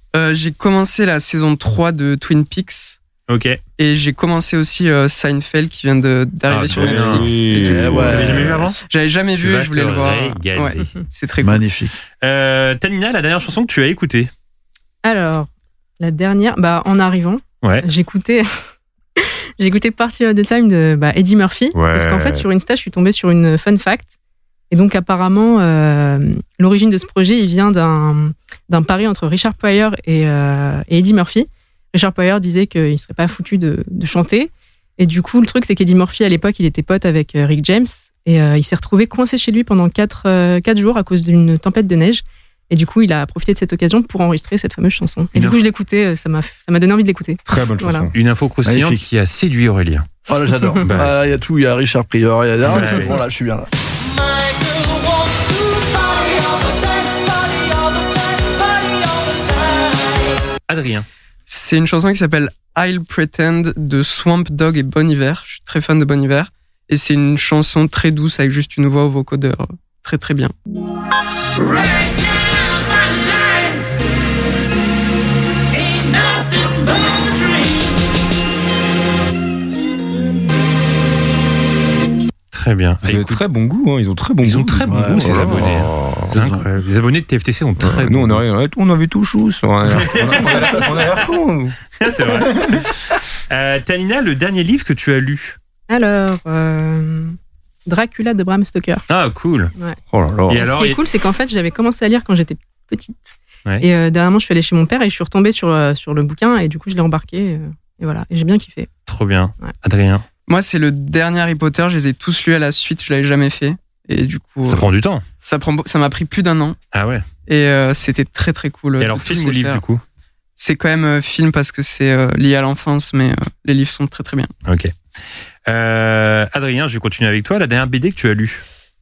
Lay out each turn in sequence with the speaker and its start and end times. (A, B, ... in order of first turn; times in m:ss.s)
0:00.1-0:03.0 A
0:03.3-0:03.6 B
0:03.8-0:08.0 A
0:06.5-0:07.4 B
0:06.7-0:08.6 C
0:07.6-0:08.6 D
0:07.9-0:08.8 B
0:08.9-0:11.6 A
0:09.3-0:10.9 B
0:11.4-0:11.9 D
0:12.2-0:14.3 B
0:15.0-0:18.4 E
0:19.2-0:24.2 E
0:21.7-0:22.4 C
0:24.7-0:48.1 E
0:45.3-0:45.6 B
0:47.5-0:48.1 C
0:48.1-0:50.1 B
0:48.6-0:49.0 D
0:50.3-0:53.7 D
0:50.8-0:51.1 B
0:52.6-0:53.2 B
1:00.7-1:01.0 B
1:01.5-1:10.5 A
1:22.5-1:23.4 B
1:23.0-1:26.3 C
1:24.4-1:28.4 B
1:24.8-1:25.6 D
1:26.3-1:26.6 D
1:27.8-1:31.8 C
1:30.0-1:31.0 B
1:32.0-1:32.8 B
1:32.4-1:32.7 C
1:33.5-1:35.6 B
1:35.9-1:39.0 E
1:39.1-1:39.7 B
1:40.1-1:40.6 C
1:40.5-1:41.0 B
1:40.5-1:48.9 E
1:49.0-1:50.2 B
1:50.5-1:54.9 A
1:54.6-1:55.2 B
1:55.4-1:56.8 A
1:56.9-1:57.2 B
1:57.5-1:59.8 A
1:59.0-2:00.0 B
2:00.6-2:04.5 A
2:04.6-2:04.9 B
2:05.7-2:08.6 B